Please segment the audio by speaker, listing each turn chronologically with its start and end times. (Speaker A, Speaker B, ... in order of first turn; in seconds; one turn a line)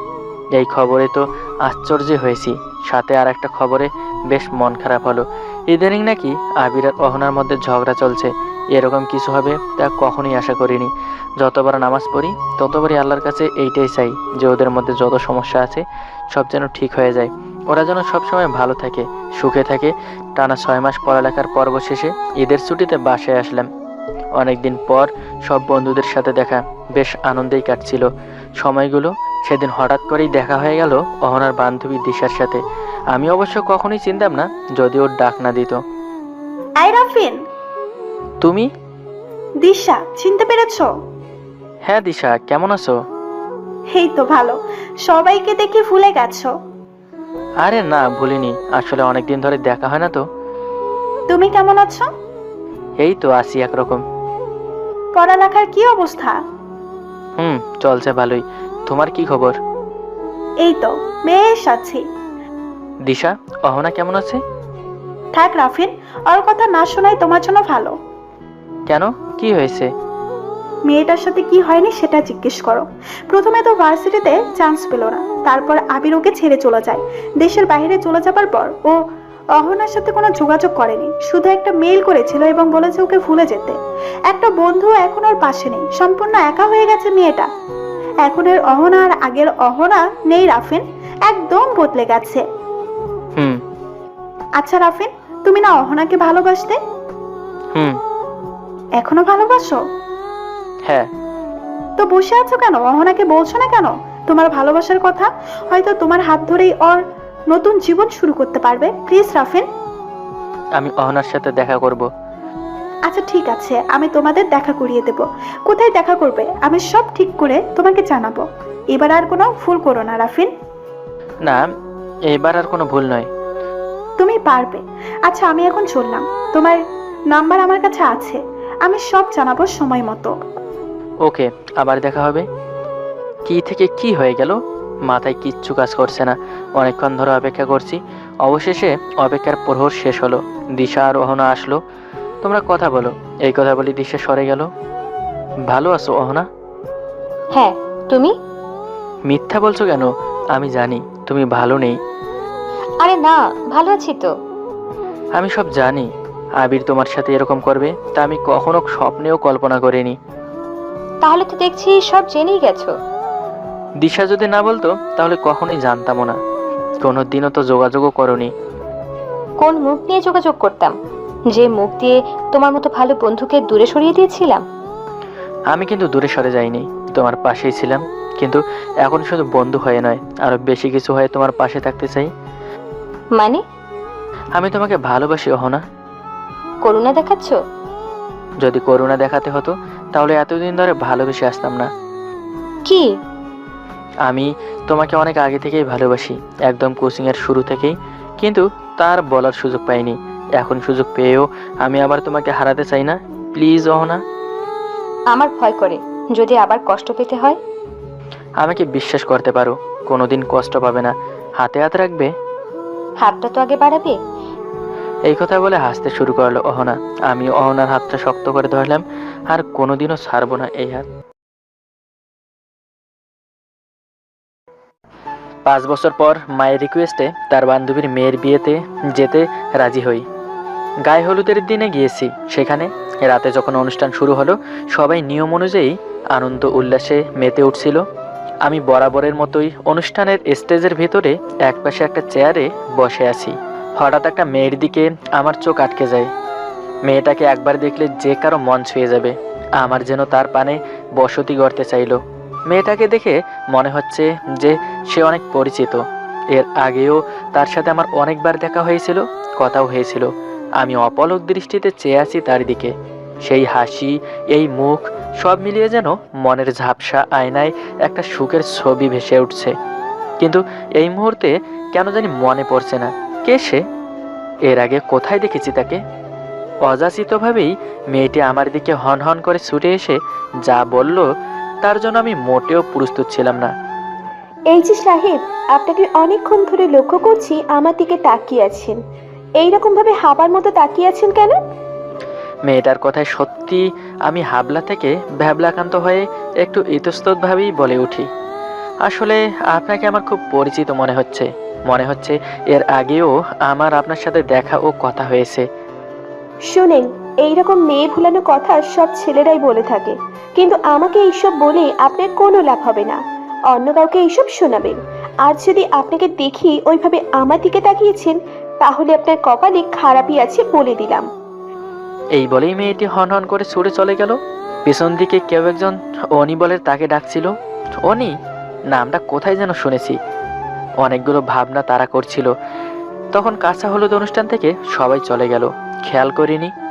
Speaker A: 0.6-23.7
Speaker A: 24.4-28.1
Speaker A: 28.6-32.6
Speaker A: 33.1-35.8
Speaker B: 36.8-37.4
Speaker A: 38.4-38.7
Speaker B: 39.6-40.9
Speaker A: 41.9-42.9
Speaker B: 43.9-46.5
Speaker A: 47.6-50.2
Speaker B: 51.3-52.0
Speaker A: 53.0-54.0
Speaker B: 55.1-56.4
Speaker A: 57.4-59.5
Speaker B: 60.6-62.0
Speaker A: 63.0-64.4
Speaker B: 65.3-67.9
Speaker A: 68.9-69.9
Speaker B: 70.9-78.9
Speaker B: 79.6-83.8
Speaker B: 84.3-87.5
Speaker B: 88.2-92.4
Speaker B: 94.6-96.8
Speaker B: 99.0-99.8
Speaker B: 102.0-107.0
Speaker B: 107.5-109.7
Speaker A: 110.8-112.0
Speaker B: 113.1-120.5
Speaker A: 122.3-123.3
Speaker B: 124.2-126.8
Speaker B: 127.3-130.3
Speaker A: 131.2-132.4
Speaker A: 133.5-134.6
Speaker A: 135.1-141.8
Speaker A: 142.4-144.7
Speaker A: 145.7-146.4
Speaker C: 147.5-148.3
Speaker A: 149.3-152.0
Speaker C: 153.0-154.3
Speaker A: 155.4-156.1
Speaker A: 156.6-160.2
Speaker C: 161.2-162.9
Speaker A: 164.0-166.4
Speaker A: 167.0-168.5
Speaker C: 169.6-170.9
Speaker C: 171.5-174.6
Speaker A: 175.7-182.3
Speaker C: 183.3-183.6
Speaker A: 184.6-185.8
Speaker C: 186.8-187.6
Speaker A: 188.6-191.9
Speaker A: 194.2-204.2
Speaker C: 205.3-207.6
Speaker A: 208.6-212.3
Speaker C: 213.2-214.2
Speaker A: 215.3-221.1
Speaker A: 225.7-230.2
Speaker A: 231.0-238.0
Speaker A: 238.6-246.3
Speaker A: 247.1-252.2
Speaker A: 252.7-256.0
Speaker A: 256.5-260.3
Speaker A: 260.8-262.9
Speaker A: 263.4-269.7
Speaker A: 270.4-273.8
Speaker A: 274.7-276.0
Speaker A: 276.9-281.2
Speaker A: 281.8-283.7
Speaker D: 284.7-289.0
Speaker D: 289.6-291.6
Speaker A: 292.7-298.3
Speaker A: 299.1-305.6
Speaker D: 306.7-313.2
Speaker D: 313.7-321.2
Speaker A: 322.4-327.5
Speaker A: 328.0-328.3
Speaker A: 328.9-330.2
Speaker A: 331.0-332.5
Speaker A: 333.3-336.7